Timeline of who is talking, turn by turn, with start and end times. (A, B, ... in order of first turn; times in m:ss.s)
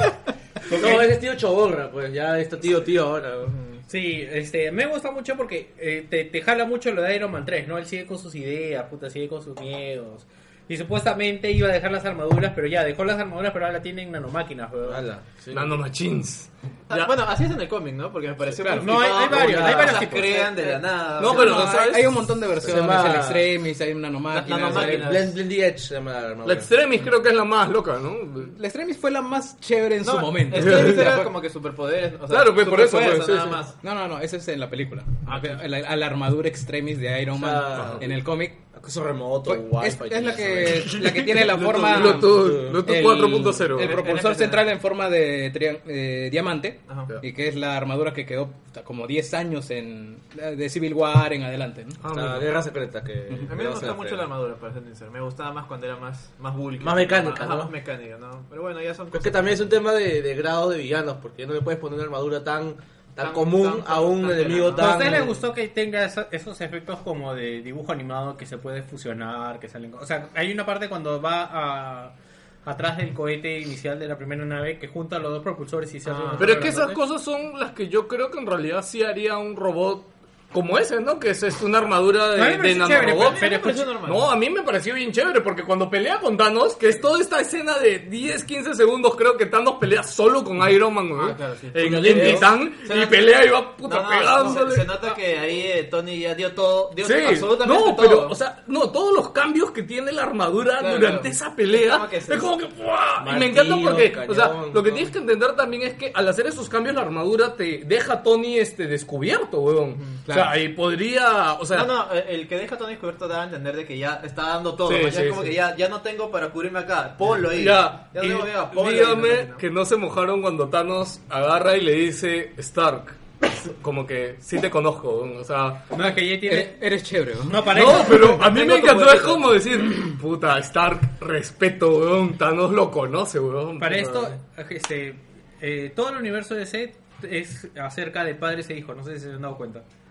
0:00.7-0:03.6 A
0:00.8-0:01.0 B
0:03.9-0:15.1 B
0:14.9-0:15.8 A
0:15.5-0:17.1 C
0:16.9-0:22.1 D
0:18.6-0:19.0 E
0:18.8-0:20.8 B
0:19.3-0:20.0 A
0:21.2-0:22.0 C
0:21.2-0:25.1 E
0:22.6-0:23.5 A
0:22.7-0:23.2 C
0:24.3-0:25.4 D
0:24.6-0:26.7 A
0:26.4-0:28.6 C
0:28.5-0:31.3 E
0:30.0-0:33.8 D
0:30.5-0:31.2 C
0:32.3-0:33.6 C
0:33.8-0:38.6 E
0:35.3-0:35.6 D
0:37.3-0:42.8 A
0:37.8-0:38.0 C
0:39.4-0:52.0 E
0:41.8-0:44.0 C
0:43.8-0:44.7 D
0:52.0-0:52.5 C
0:52.1-0:54.3 A
0:53.5-0:59.7 D
0:56.8-0:57.7 A
0:59.1-1:05.4 A
1:03.2-1:05.2 D
1:04.8-1:12.1 B
1:12.6-1:17.0 B
1:16.1-1:16.8 D
1:16.4-1:23.5 C
1:22.4-1:23.9 B
1:22.9-1:24.3 D
1:24.0-1:34.9 C
1:31.2-1:38.4 D
1:31.8-1:32.5 A
1:37.0-1:51.9 C
1:40.8-1:42.5 D
1:43.2-1:45.1 A
1:50.3-1:50.6 E
1:51.7-1:59.6 D
1:54.8-1:55.6 C
1:57.5-2:05.9 C
2:05.9-2:06.8 B
2:06.5-2:07.7 E
2:07.4-2:09.4 B
2:07.7-2:14.3 C
2:13.8-2:19.8 B